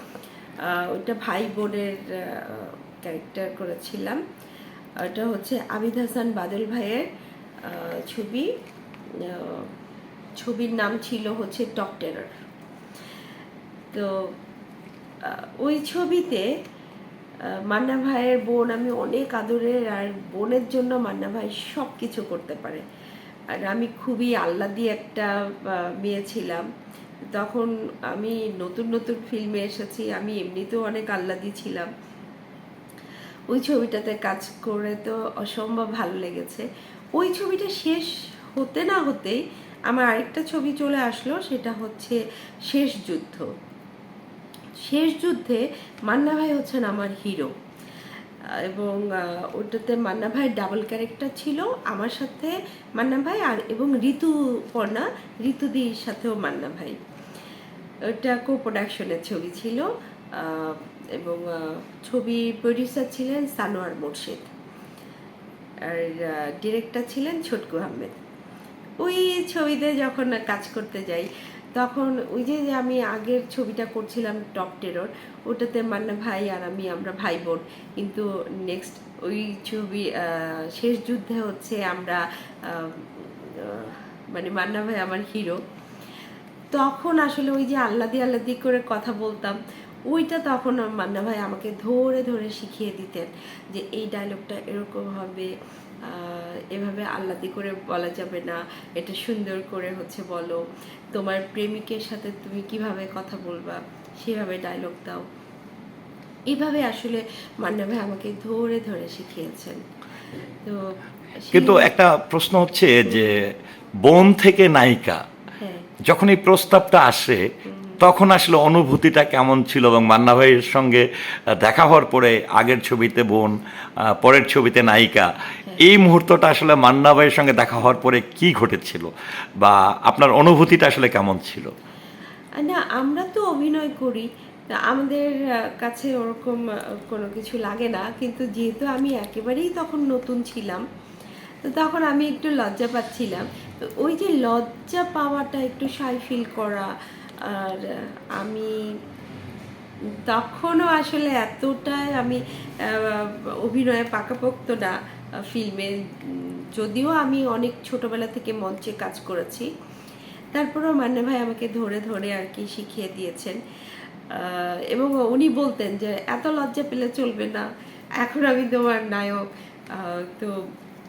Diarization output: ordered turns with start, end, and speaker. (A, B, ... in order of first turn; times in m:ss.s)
0:00.6-0:04.2 A
0:05.0-0:07.1 A
0:07.6-0:08.5 A
0:09.2-0:09.7 A
0:10.4-0:12.3 A
0:13.9-0:14.3 A
0:15.2-0:16.5 A
0:17.5-0:22.8 A
0:23.5-0:26.7 A
0:27.3-0:31.9 A
0:33.5-0:43.5 A
0:44.8-0:47.5 A
0:48.6-0:57.0 A
0:58.1-1:04.5 A
1:05.8-1:08.2 A
1:09.0-1:25.6 A
1:26.7-1:29.6 A
1:30.1-1:35.5 A
1:36.0-1:40.6 A
1:41.1-1:45.2 A
1:46.5-1:49.8 A
1:50.4-1:51.9 A
1:51.5-1:55.2 B
1:53.1-1:53.5 A
1:55.6-1:55.9 A
1:56.1-2:09.1 B
1:57.7-1:58.0 A
2:09.6-2:11.7 B
2:12.6-2:20.8 A
2:21.6-2:26.9 A
2:27.4-2:28.8 A
2:30.3-2:39.7 A
2:40.5-2:43.6 A
2:44.3-2:47.7 A
2:48.2-2:50.5 A